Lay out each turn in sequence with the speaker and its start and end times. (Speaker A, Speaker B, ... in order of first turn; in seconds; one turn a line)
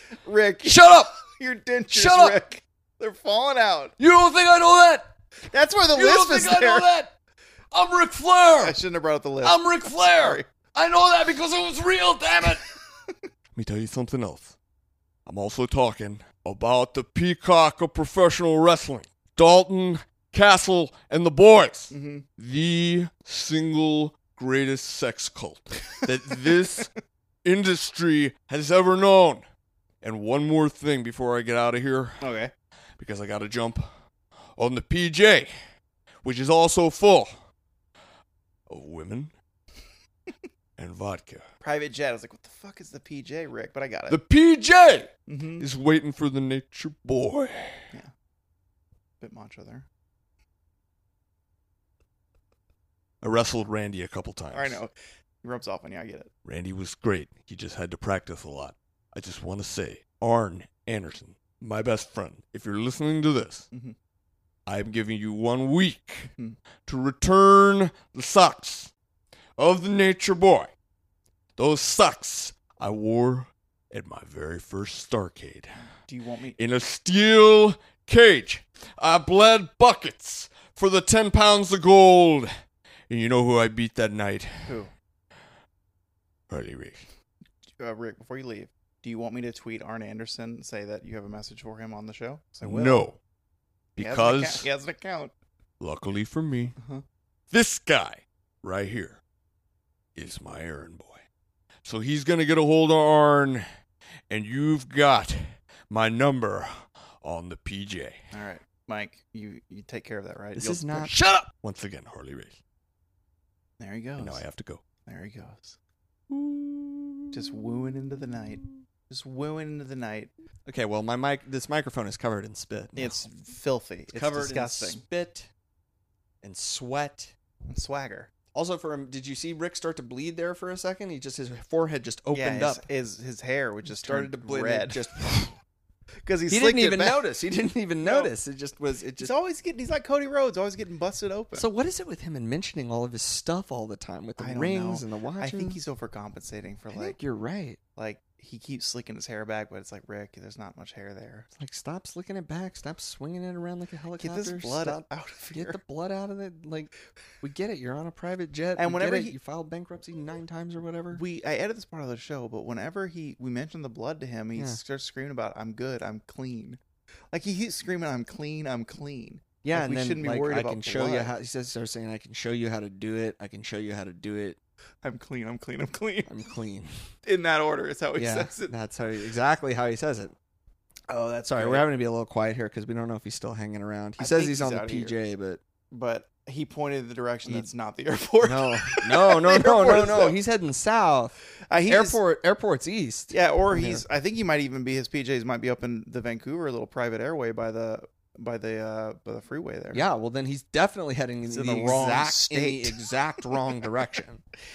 Speaker A: 0.2-3.9
Speaker B: 0.7-1.1
Speaker B: 1.9-2.4
Speaker B: 4.0-5.0
Speaker A: 5.5-6.9
Speaker B: 6.0-7.0
Speaker C: 6.1-6.8
Speaker C: 7.7-8.7
Speaker B: 8.1-8.6
Speaker A: 8.6-10.5
Speaker C: 9.4-12.6
Speaker B: 9.5-10.1
Speaker B: 10.8-11.6
Speaker C: 13.6-14.5
Speaker C: 15.3-26.9
Speaker A: 21.9-22.3
Speaker C: 27.4-29.4
Speaker C: 30.0-32.2
Speaker A: 32.2-32.5
Speaker C: 33.0-33.9
Speaker C: 34.6-35.5
Speaker C: 36.2-37.3
Speaker C: 38.7-39.3
Speaker C: 40.8-41.4
Speaker A: 41.6-44.2
Speaker C: 44.1-47.8
Speaker A: 45.3-45.6
Speaker A: 49.2-49.9
Speaker C: 53.2-54.8
Speaker A: 54.5-56.3
Speaker C: 56.5-63.7
Speaker C: 64.7-66.3
Speaker C: 66.9-68.9
Speaker C: 69.6-70.7
Speaker C: 71.6-75.7
Speaker A: 76.1-76.6
Speaker C: 76.6-82.5
Speaker C: 83.1-84.5
Speaker A: 84.7-84.9
Speaker C: 86.5-87.0
Speaker A: 87.8-93.1
Speaker C: 92.6-93.2
Speaker C: 94.0-94.7
Speaker A: 94.0-95.3
Speaker C: 95.8-96.7
Speaker A: 96.8-97.0
Speaker C: 97.5-99.2
Speaker C: 100.2-101.2
Speaker C: 101.8-103.6
Speaker C: 104.3-108.2
Speaker A: 108.3-111.1
Speaker B: 110.5-111.2
Speaker C: 111.1-112.6
Speaker A: 113.8-114.4
Speaker C: 114.2-114.8
Speaker A: 115.1-115.8
Speaker B: 116.3-117.2
Speaker A: 117.3-120.3
Speaker B: 120.7-123.2
Speaker A: 123.0-125.0
Speaker B: 124.1-125.5
Speaker B: 126.4-127.3
Speaker A: 127.7-128.3
Speaker B: 128.5-132.8
Speaker A: 132.3-135.4
Speaker B: 133.9-135.5
Speaker A: 136.2-137.2
Speaker B: 136.5-139.3
Speaker A: 138.0-138.3
Speaker A: 139.2-141.7
Speaker B: 141.5-145.8
Speaker A: 144.4-147.2
Speaker B: 146.9-147.8
Speaker A: 148.0-151.5
Speaker B: 151.6-161.2
Speaker A: 154.2-155.8
Speaker A: 158.8-159.4
Speaker A: 161.1-166.8
Speaker A: 167.3-171.3
Speaker B: 169.6-174.6
Speaker A: 175.0-176.3
Speaker B: 176.3-176.9
Speaker A: 177.2-178.7
Speaker B: 178.2-180.3
Speaker A: 181.1-181.9
Speaker B: 181.5-185.6
Speaker A: 184.2-185.2
Speaker A: 185.9-190.4
Speaker B: 188.4-191.3
Speaker A: 191.7-192.2
Speaker B: 191.9-194.0
Speaker A: 193.3-200.1
Speaker B: 199.9-204.4
Speaker A: 201.5-203.0